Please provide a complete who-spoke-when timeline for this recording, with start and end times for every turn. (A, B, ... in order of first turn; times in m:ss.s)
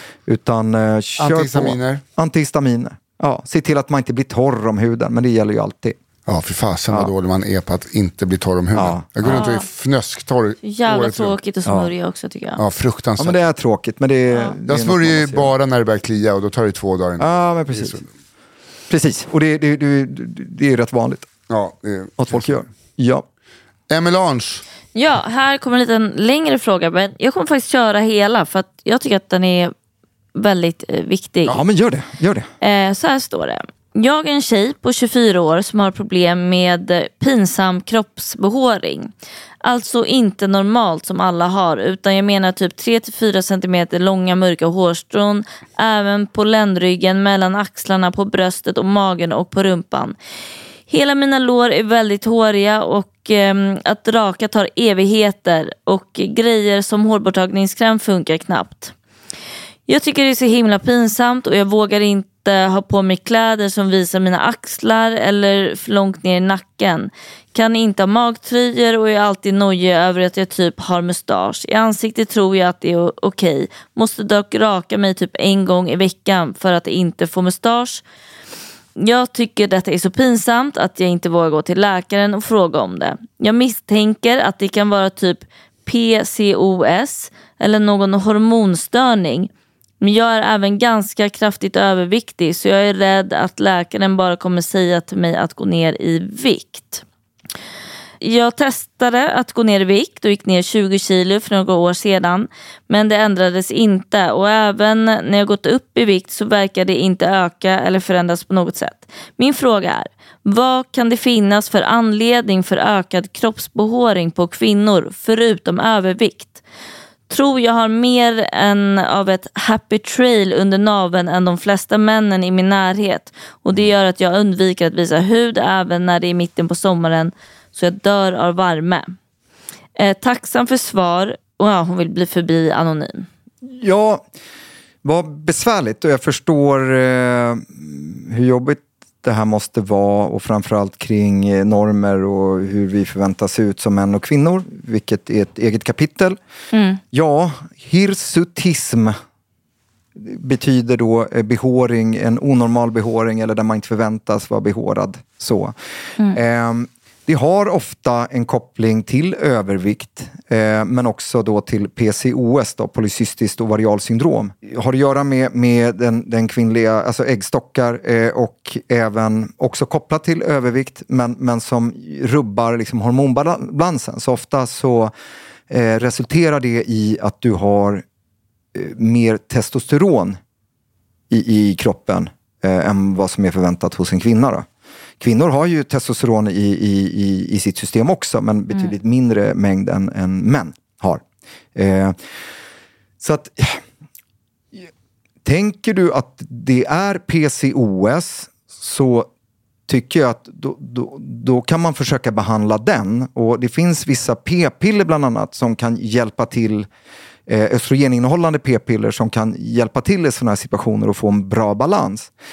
0:00.3-0:06.0 A
0:01.2-0:02.0 B
0:06.3-0:11.4 B
0:08.7-0:09.1 A
0:09.2-0:09.6 C
0:10.6-0:12.6 C
0:11.6-0:11.9 A
0:12.6-0:13.4 B
0:13.2-0:15.5 A
0:14.6-0:18.1 B
0:17.2-0:18.0 A
0:18.9-0:21.3 A
0:21.5-0:22.5 B
0:22.2-0:23.2 A
0:23.9-0:24.6 B
0:24.9-0:29.7 C
0:30.3-0:31.6 C
0:31.4-0:32.5 A
0:32.6-0:39.1 C
0:39.6-0:50.2 C
0:50.9-0:58.9 C
0:59.9-1:18.0 C
1:19.0-1:29.5 C
1:30.0-1:37.0 C
1:38.2-1:56.6 C
1:57.3-2:09.1 C
2:10.0-2:13.3 C
2:13.6-2:14.2 A
2:15.0-2:26.4 A
2:26.7-2:27.0 C
2:27.1-2:29.2 A
2:30.2-2:35.7 A
2:36.3-2:55.1 A
2:55.7-2:58.0 A
2:58.7-3:00.4 A
3:01.3-3:04.7 A
3:05.2-3:11.2 A
3:11.7-3:12.2 A
3:13.2-3:13.8 A
3:15.4-3:19.3 A
3:19.9-3:26.9 A
3:27.5-3:32.3 A